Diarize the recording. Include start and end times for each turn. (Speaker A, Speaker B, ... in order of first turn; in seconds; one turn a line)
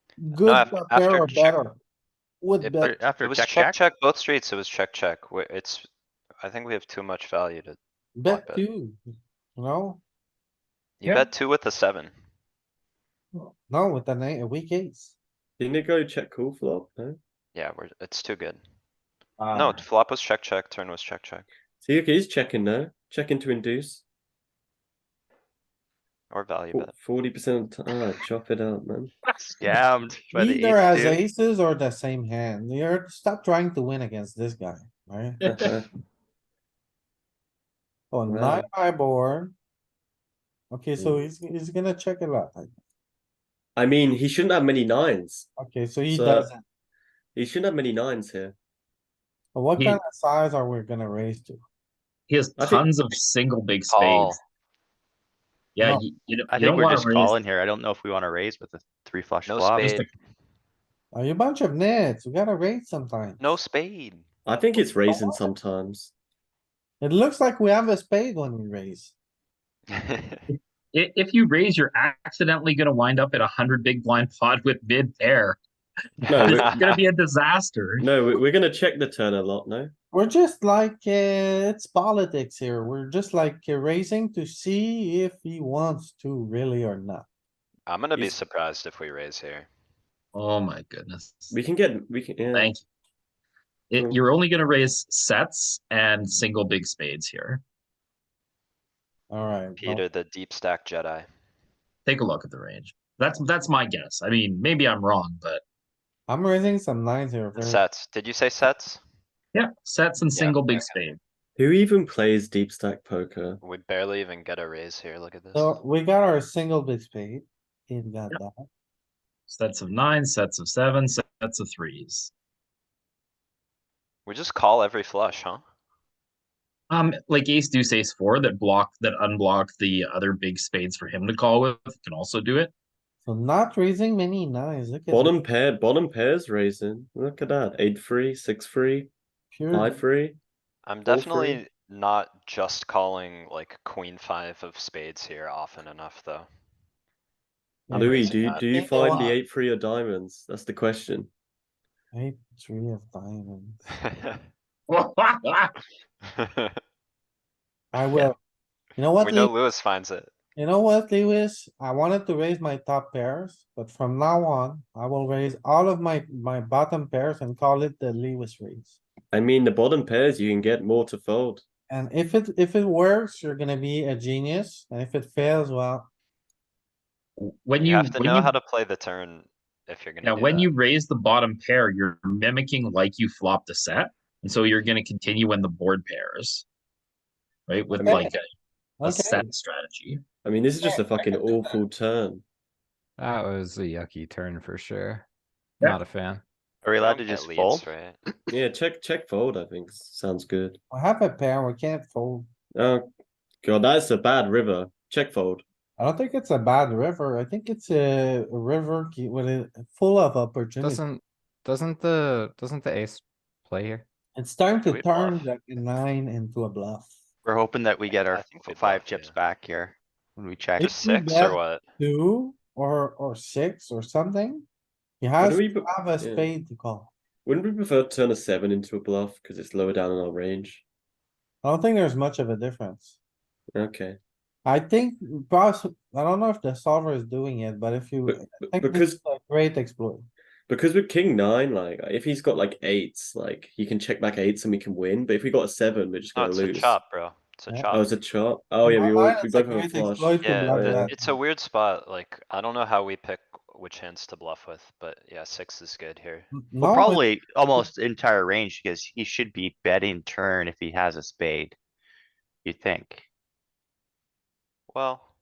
Speaker A: 0.2-1.8
Speaker B: 0.4-1.6
Speaker A: 2.4-3.0
Speaker B: 2.6-5.9
Speaker C: 2.8-3.8
Speaker B: 6.4-8.6
Speaker A: 8.2-9.0
Speaker A: 9.6-10.0
Speaker B: 11.0-12.1
Speaker A: 13.7-15.1
Speaker D: 15.6-17.2
Speaker B: 17.5-18.6
Speaker E: 19.4-19.8
Speaker B: 19.5-21.5
Speaker D: 21.8-24.0
Speaker B: 26.3-26.9
Speaker D: 26.7-29.1
Speaker E: 29.2-29.8
Speaker C: 29.6-31.2
Speaker A: 30.3-35.4
Speaker D: 35.5-35.8
Speaker A: 38.1-39.5
Speaker D: 38.3-38.6
Speaker A: 40.7-42.7
Speaker D: 43.8-45.5
Speaker A: 45.6-46.6
Speaker D: 46.1-46.5
Speaker D: 47.3-48.5
Speaker A: 49.5-51.6
Speaker E: 52.3-54.4
Speaker D: 52.6-52.9
Speaker B: 53.9-54.4
Speaker E: 55.7-57.4
Speaker C: 56.5-60.0
Speaker B: 59.5-60.1
Speaker A: 61.1-63.6
Speaker B: 63.4-64.2
Speaker D: 64.4-66.1
Speaker A: 65.1-65.5
Speaker A: 67.0-69.1
Speaker B: 69.9-70.4
Speaker E: 70.5-75.6
Speaker E: 76.2-78.1
Speaker D: 76.3-76.8
Speaker B: 76.4-77.0
Speaker D: 78.0-79.9
Speaker A: 80.1-87.2
Speaker B: 87.9-89.7
Speaker E: 90.3-91.5
Speaker D: 91.5-92.8
Speaker E: 92.5-92.8
Speaker E: 93.9-97.6
Speaker A: 99.3-100.0
Speaker B: 99.8-101.3
Speaker E: 102.0-105.6
Speaker A: 106.3-107.8
Speaker B: 107.5-109.0
Speaker E: 109.5-111.2
Speaker B: 110.3-111.1
Speaker D: 111.6-113.6
Speaker B: 113.6-115.8
Speaker A: 115.5-118.7
Speaker E: 119.5-122.3
Speaker B: 124.2-125.6
Speaker E: 126.9-132.7
Speaker A: 133.2-135.3
Speaker D: 135.1-139.1
Speaker A: 139.5-140.0
Speaker D: 139.7-140.4
Speaker B: 140.8-146.5
Speaker D: 141.1-141.6
Speaker A: 147.9-149.3
Speaker D: 147.9-151.3
Speaker B: 148.0-149.3
Speaker A: 152.1-153.8
Speaker B: 154.0-154.4
Speaker E: 154.9-155.8
Speaker B: 156.4-156.8
Speaker A: 157.9-158.3
Speaker B: 157.9-158.3
Speaker A: 158.9-159.5
Speaker B: 159.2-160.3
Speaker A: 160.6-169.0
Speaker D: 169.3-171.6
Speaker A: 171.9-176.1
Speaker E: 177.4-178.5
Speaker B: 177.8-180.7
Speaker E: 180.2-186.7
Speaker E: 187.7-188.4
Speaker D: 187.9-188.3
Speaker A: 188.1-188.3
Speaker A: 189.0-189.4
Speaker E: 189.0-190.2
Speaker D: 190.4-192.4
Speaker A: 190.8-191.7
Speaker F: 193.2-195.2
Speaker F: 195.8-196.4
Speaker C: 196.8-197.8
Speaker B: 197.0-198.2
Speaker D: 198.5-200.8
Speaker A: 200.9-202.5
Speaker D: 202.7-203.1
Speaker D: 203.6-205.6
Speaker A: 206.0-211.0
Speaker F: 210.8-214.0
Speaker A: 214.3-217.1
Speaker B: 214.8-215.5
Speaker C: 217.4-220.9
Speaker B: 218.1-219.3
Speaker A: 220.8-224.7
Speaker B: 220.8-221.8
Speaker A: 225.2-227.1
Speaker D: 225.4-226.5
Speaker D: 227.4-230.8
Speaker A: 231.6-233.2
Speaker D: 233.7-234.2
Speaker A: 234.6-240.3
Speaker D: 238.3-239.2
Speaker D: 240.7-247.0
Speaker B: 246.3-248.1
Speaker D: 247.9-251.1
Speaker A: 248.8-251.3
Speaker B: 250.4-256.5
Speaker A: 256.5-257.8
Speaker C: 256.8-261.8
Speaker C: 262.6-263.2
Speaker B: 264.9-265.3